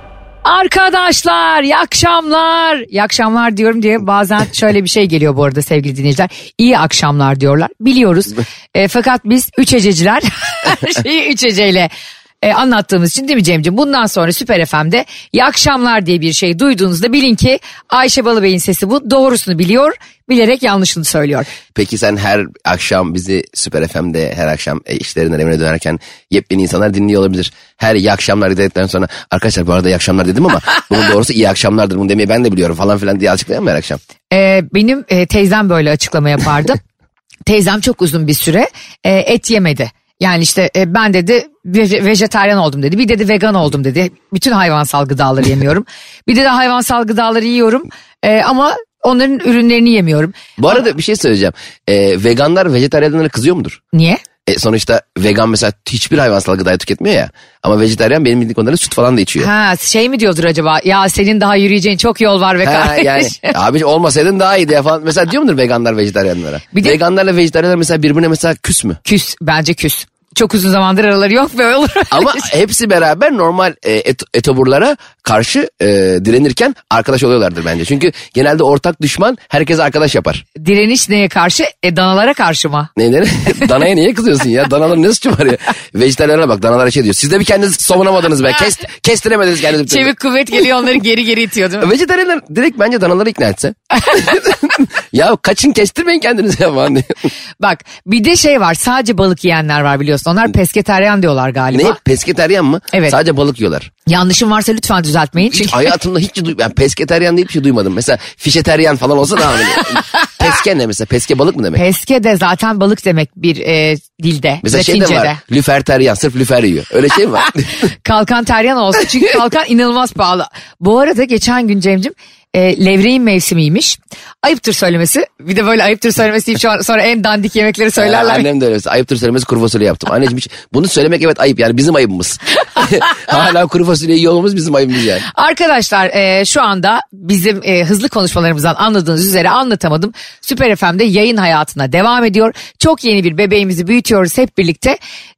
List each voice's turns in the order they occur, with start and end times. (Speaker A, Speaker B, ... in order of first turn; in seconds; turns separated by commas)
Speaker A: 0.4-11.9, Speaker A: 12.4-21.5, Speaker B: 21.7-34.0, Speaker A: 34.3-36.8, Speaker A: 37.5-50.5, Speaker B: 50.6-53.8, Speaker A: 53.9-54.2, Speaker B: 54.5-59.5, Speaker A: 59.4-63.5, Speaker B: 62.6-69.0, Speaker A: 69.0-72.4, Speaker B: 72.1-80.4, Speaker A: 80.6-82.9, Speaker B: 83.0-90.1, Speaker A: 89.8-91.9, Speaker B: 91.8-97.3, Speaker A: 97.6-102.0, Speaker B: 101.7-103.9, Speaker A: 102.9-103.2, Speaker A: 104.0-105.9, Speaker B: 105.4-111.8, Speaker A: 111.7-115.4, Speaker B: 114.6-117.8, Speaker A: 117.8-128.4, Speaker B: 128.0-135.2, Speaker A: 135.3-145.0